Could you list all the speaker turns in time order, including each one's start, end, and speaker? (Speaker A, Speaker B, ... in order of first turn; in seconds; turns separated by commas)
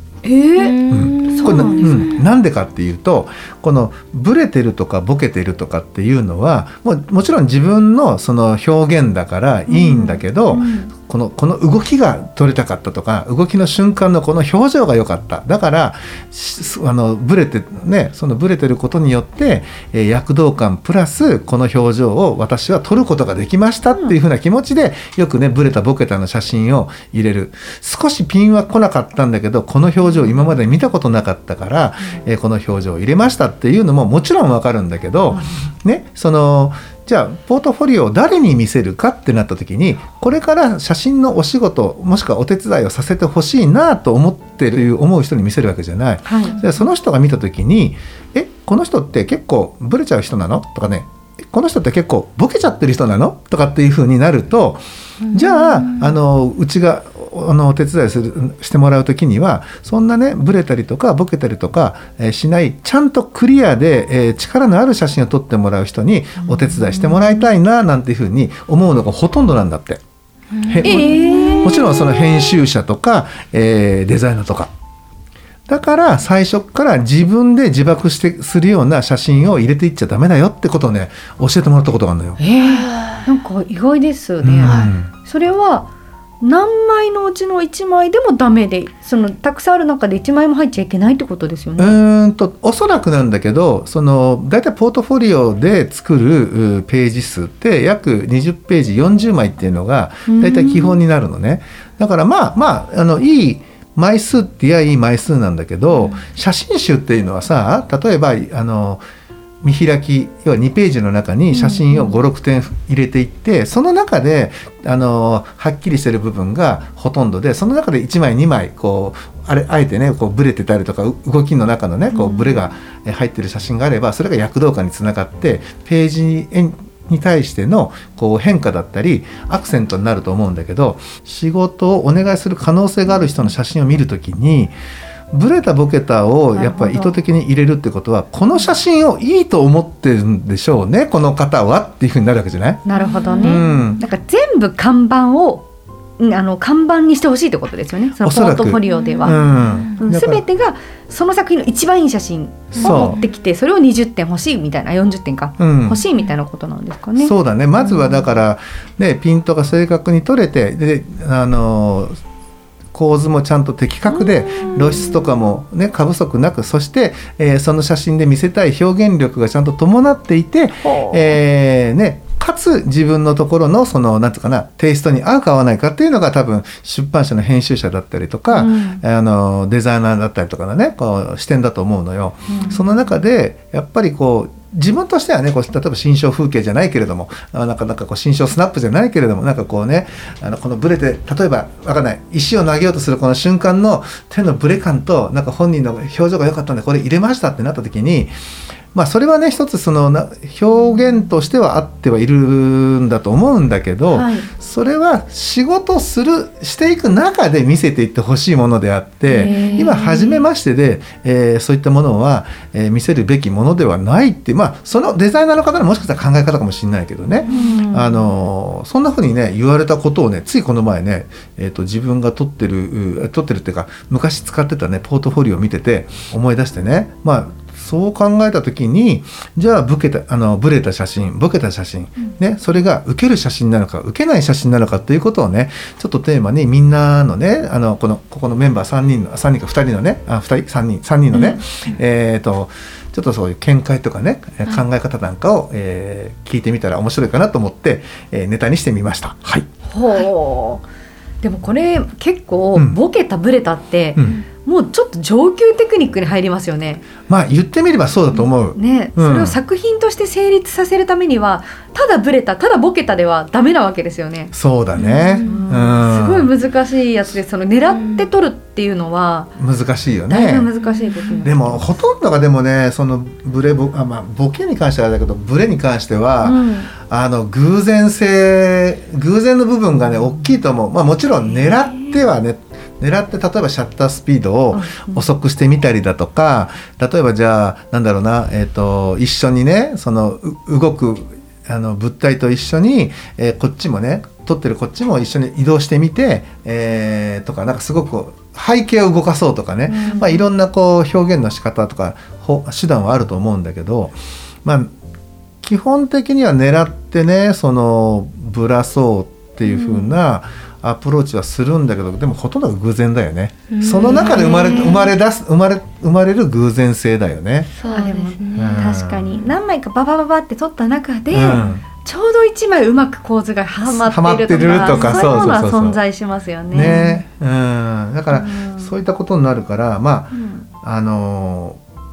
Speaker A: 0.2-2.1, Speaker B: 0.6-2.2, Speaker C: 0.9-70.0, Speaker A: 9.7-10.9, Speaker A: 35.3-35.7, Speaker A: 46.2-46.6, Speaker B: 55.2-56.2, Speaker A: 66.4-67.2, Speaker B: 70.5-72.2, Speaker C: 70.7-74.7, Speaker A: 70.8-72.0, Speaker C: 75.7-82.4, Speaker A: 82.4-85.9, Speaker B: 82.6-83.2, Speaker C: 84.4-85.1, Speaker B: 84.6-84.9, Speaker A: 86.4-92.0, Speaker C: 91.8-109.0, Speaker A: 100.3-101.0, Speaker B: 105.9-106.2, Speaker C: 109.6-134.7, Speaker B: 111.5-112.2, Speaker B: 122.1-122.6, Speaker C: 135.3-142.8, Speaker A: 136.6-137.2, Speaker A: 142.8-145.7, Speaker B: 142.9-143.8, Speaker C: 143.4-144.0, Speaker A: 146.2-149.4, Speaker C: 148.2-150.4, Speaker B: 148.9-150.0, Speaker A: 150.0-157.3, Speaker C: 152.7-153.2, Speaker B: 152.7-153.2, Speaker C: 155.6-156.0, Speaker C: 157.2-162.2, Speaker C: 162.9-198.3, Speaker A: 164.6-165.0, Speaker B: 164.6-165.0, Speaker A: 170.8-171.3, Speaker A: 178.5-179.0, Speaker A: 182.5-182.9, Speaker C: 198.9-249.7, Speaker A: 204.1-204.5, Speaker A: 209.3-210.0, Speaker B: 209.4-210.4, Speaker B: 217.4-217.7, Speaker A: 217.5-218.3, Speaker B: 241.3-241.6, Speaker A: 249.9-250.8, Speaker A: 251.4-257.0, Speaker C: 254.2-254.4, Speaker C: 257.3-259.6, Speaker A: 258.7-264.5, Speaker C: 264.5-266.5, Speaker B: 264.9-265.7, Speaker A: 265.4-269.5, Speaker B: 267.9-268.2, Speaker C: 269.6-270.7, Speaker A: 270.3-271.9, Speaker B: 270.8-271.5, Speaker C: 271.4-304.9, Speaker A: 276.4-276.9, Speaker A: 281.9-282.2, Speaker A: 284.7-285.2, Speaker A: 299.9-300.5, Speaker C: 305.6-317.7, Speaker A: 309.6-310.1, Speaker B: 313.7-315.1, Speaker B: 317.8-318.8, Speaker A: 317.9-327.1, Speaker C: 318.6-319.4, Speaker C: 321.3-321.9, Speaker C: 323.9-326.0, Speaker B: 324.8-325.5, Speaker C: 326.7-331.8, Speaker B: 326.8-327.1, Speaker A: 328.3-328.9, Speaker A: 330.3-330.6